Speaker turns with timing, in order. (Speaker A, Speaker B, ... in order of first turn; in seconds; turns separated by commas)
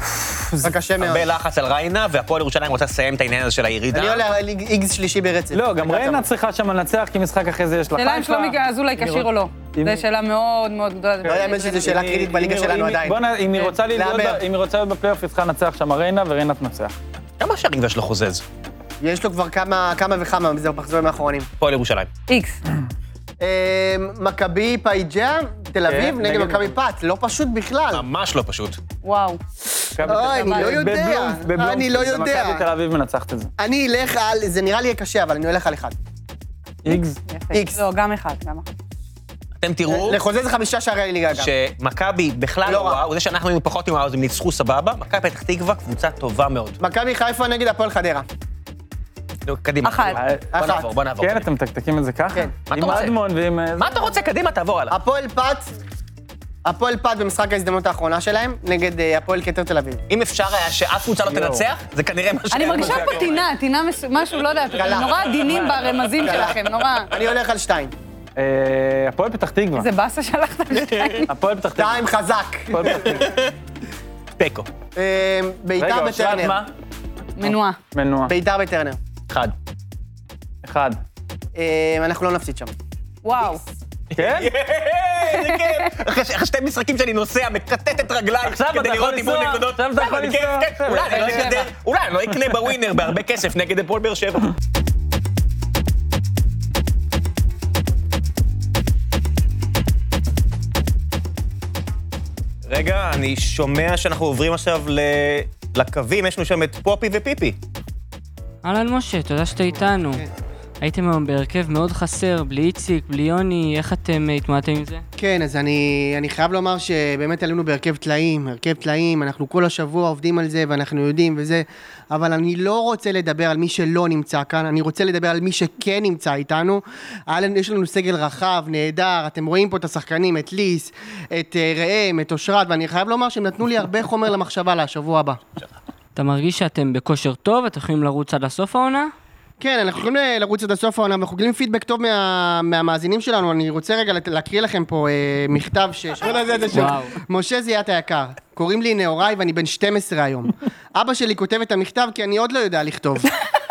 Speaker A: 0.3-0.7, Speaker B: 0.6-1.3, Speaker C: 1.0-4.2, Speaker B: 3.9-6.3, Speaker A: 5.5-10.0, Speaker D: 8.0-11.9, Speaker B: 11.2-13.2, Speaker A: 11.3-16.9, Speaker B: 13.9-14.4, Speaker C: 17.4-18.4, Speaker B: 19.0-21.5, Speaker C: 21.6-22.1, Speaker D: 22.3-22.6, Speaker B: 23.4-28.1, Speaker A: 25.9-26.7, Speaker C: 27.9-28.8, Speaker D: 29.0-29.4, Speaker A: 30.0-33.5, Speaker B: 30.0-32.7, Speaker D: 30.1-30.7, Speaker B: 33.6-35.9, Speaker A: 36.8-37.2, Speaker D: 36.9-38.7, Speaker B: 37.5-37.8, Speaker C: 39.6-40.2, Speaker B: 39.9-41.5, Speaker C: 41.3-46.8, Speaker B: 42.6-43.0, Speaker B: 46.8-48.2, Speaker C: 49.5-51.5, Speaker D: 49.8-50.2, Speaker A: 50.1-54.1, Speaker B: 50.5-50.9, Speaker C: 52.7-53.1, Speaker C: 53.8-55.0, Speaker B: 54.9-55.7, Speaker B: 56.6-60.0, Speaker C: 60.1-63.4, Speaker A: 61.2-61.6, Speaker D: 62.5-67.1, Speaker A: 62.6-63.4, Speaker B: 64.8-65.2, Speaker A: 65.4-65.8, Speaker B: 66.2-67.9, Speaker A: 68.4-69.9, Speaker D: 69.8-71.3, Speaker C: 70.9-71.2, Speaker A: 71.3-72.0, Speaker B: 71.7-73.1, Speaker A: 72.7-73.3, Speaker C: 73.0-73.5, Speaker C: 74.4-74.7, Speaker B: 75.0-76.6, Speaker A: 75.8-76.7, Speaker D: 77.3-77.8, Speaker A: 77.4-78.3, Speaker B: 78.2-79.0, Speaker A: 80.6-81.0, Speaker B: 81.5-82.7, Speaker D: 83.2-83.6, Speaker C: 84.1-94.5, Speaker A: 84.2-84.5, Speaker D: 85.3-85.9, Speaker A: 88.4-91.5, Speaker B: 91.1-91.7, Speaker C: 102.7-107.5, Speaker E: 108.6-110.3, Speaker B: 109.8-110.3, Speaker E: 110.8-115.0, Speaker B: 115.2-135.4, Speaker E: 136.1-139.1, Speaker B: 139.6-153.3, Speaker E: 146.7-147.2